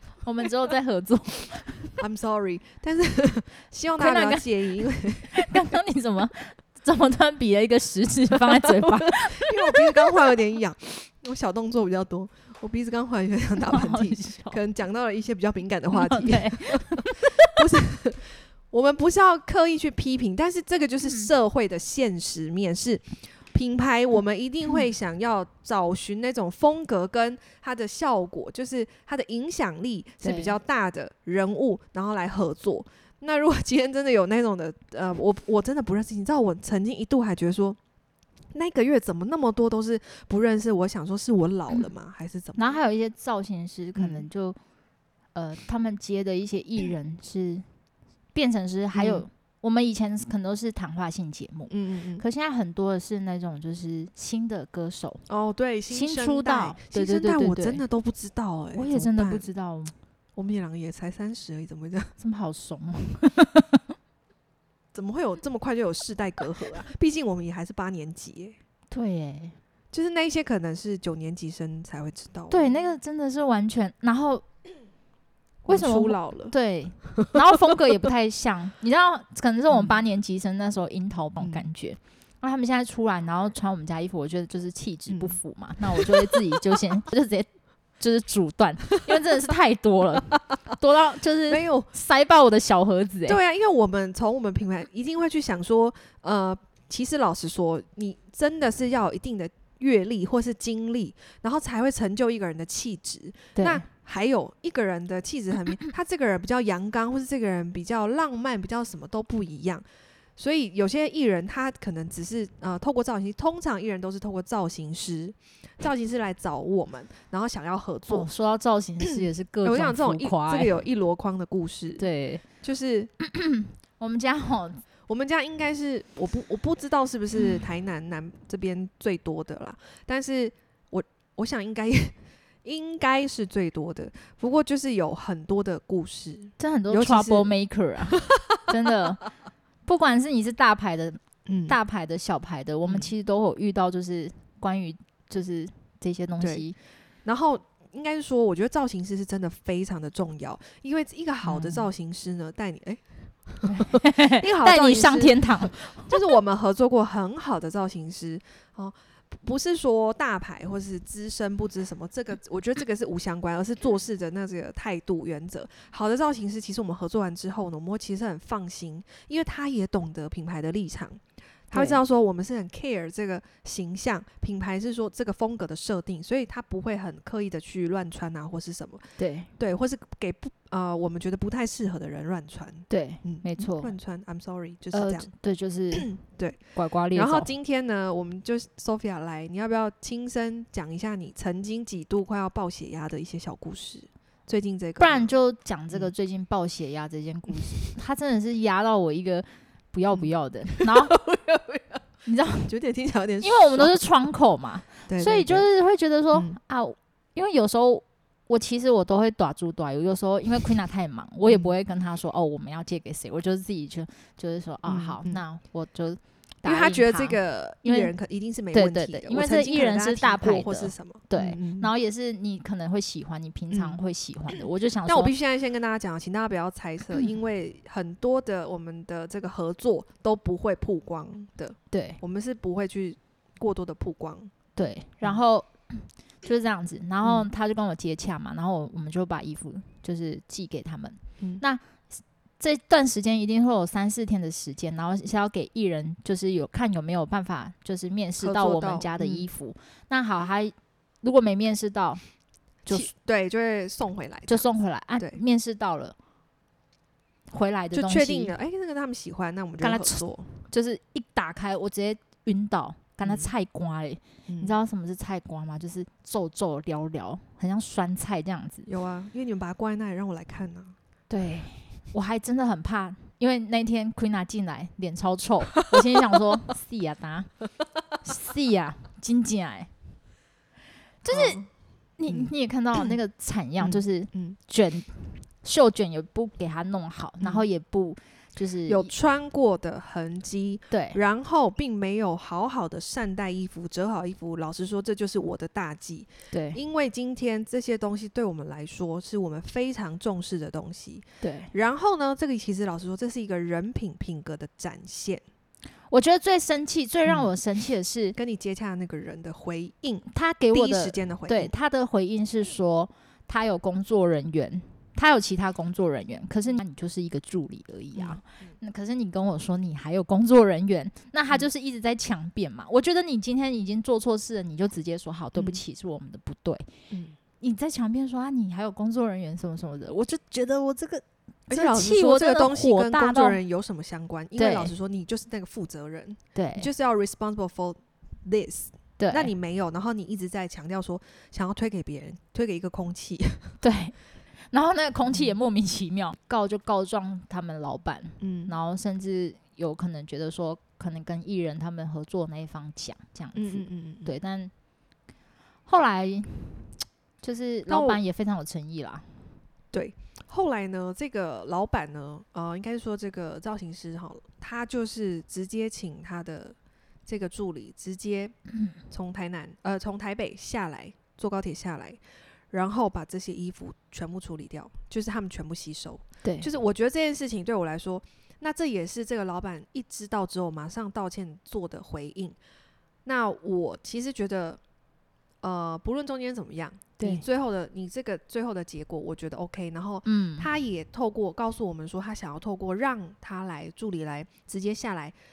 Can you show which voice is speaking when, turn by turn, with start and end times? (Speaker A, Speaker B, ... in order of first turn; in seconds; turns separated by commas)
Speaker A: 0.2-1.9, Speaker B: 2.0-5.4, Speaker A: 4.0-10.2, Speaker B: 8.5-37.8, Speaker A: 13.6-14.6, Speaker A: 15.9-17.5, Speaker A: 21.0-21.3, Speaker A: 30.2-30.6, Speaker B: 38.5-42.8, Speaker A: 42.5-44.6, Speaker B: 44.0-44.3, Speaker A: 45.3-47.7, Speaker A: 48.3-55.2, Speaker B: 48.9-49.2, Speaker B: 51.7-52.2, Speaker B: 55.3-59.5, Speaker A: 55.9-57.8, Speaker A: 58.8-60.0, Speaker B: 60.4-62.1, Speaker A: 62.2-63.8, Speaker B: 64.9-68.6, Speaker A: 68.9-69.6, Speaker B: 69.9-72.8, Speaker A: 72.5-74.4, Speaker B: 75.6-76.5, Speaker A: 75.7-87.5, Speaker B: 79.7-80.0, Speaker B: 85.1-85.4, Speaker B: 86.0-86.3, Speaker A: 88.0-93.4, Speaker B: 91.5-91.9, Speaker B: 93.3-109.8, Speaker A: 103.5-103.8, Speaker B: 110.4-118.3, Speaker A: 118.1-120.7, Speaker B: 119.0-122.0, Speaker A: 122.0-122.4, Speaker B: 122.6-123.1, Speaker A: 123.2-124.8, Speaker B: 125.1-137.5, Speaker A: 127.4-127.6, Speaker A: 136.6-139.2, Speaker A: 139.8-146.8, Speaker B: 141.4-141.8, Speaker B: 142.8-143.1, Speaker B: 147.2-179.1, Speaker A: 151.4-151.9, Speaker A: 153.6-156.2, Speaker A: 171.7-172.0, Speaker A: 179.2-179.5, Speaker B: 179.6-185.3, Speaker A: 182.9-183.9, Speaker A: 184.9-186.1, Speaker B: 185.9-195.3, Speaker A: 186.7-187.5, Speaker A: 195.0-201.2, Speaker B: 197.6-197.9, Speaker B: 200.1-202.0, Speaker A: 202.2-202.7, Speaker B: 202.7-204.0, Speaker A: 203.4-218.1, Speaker B: 205.1-205.7, Speaker B: 211.5-211.7, Speaker B: 214.8-215.4, Speaker B: 216.6-221.9, Speaker A: 218.7-225.3, Speaker B: 223.7-224.0, Speaker B: 225.1-234.5, Speaker A: 231.9-232.2, Speaker A: 234.8-242.0, Speaker B: 237.2-237.5, Speaker A: 242.6-252.2, Speaker B: 248.4-249.5, Speaker B: 252.9-254.7, Speaker A: 254.5-256.1, Speaker A: 257.5-258.5, Speaker B: 257.9-260.5, Speaker A: 259.8-268.9, Speaker B: 263.2-263.5, Speaker B: 264.5-264.8, Speaker B: 268.9-270.9, Speaker A: 271.3-277.5, Speaker A: 278.2-279.9, Speaker A: 281.2-281.6, Speaker B: 281.3-281.7, Speaker A: 282.2-289.1, Speaker B: 282.3-283.1, Speaker B: 283.8-284.6, Speaker B: 287.4-287.6, Speaker B: 288.9-305.4, Speaker A: 290.9-291.2, Speaker A: 296.5-296.8, Speaker A: 301.4-301.7, Speaker A: 306.1-308.4, Speaker B: 308.3-311.7, Speaker A: 310.3-326.9, Speaker B: 318.1-318.6, Speaker B: 325.6-325.8, Speaker B: 327.1-327.4, Speaker A: 327.6-333.6, Speaker B: 331.7-343.8, Speaker A: 334.6-334.9, Speaker A: 336.5-336.9, Speaker A: 339.2-339.5, Speaker A: 343.8-344.1, Speaker A: 344.7-354.7, Speaker B: 348.4-348.7, Speaker B: 353.5-354.3, Speaker A: 355.9-359.6, Speaker B: 357.9-358.2, Speaker B: 359.9-382.6, Speaker A: 376.4-376.7, Speaker B: 383.2-384.8, Speaker B: 385.6-395.3, Speaker A: 387.2-387.4, Speaker A: 390.2-390.7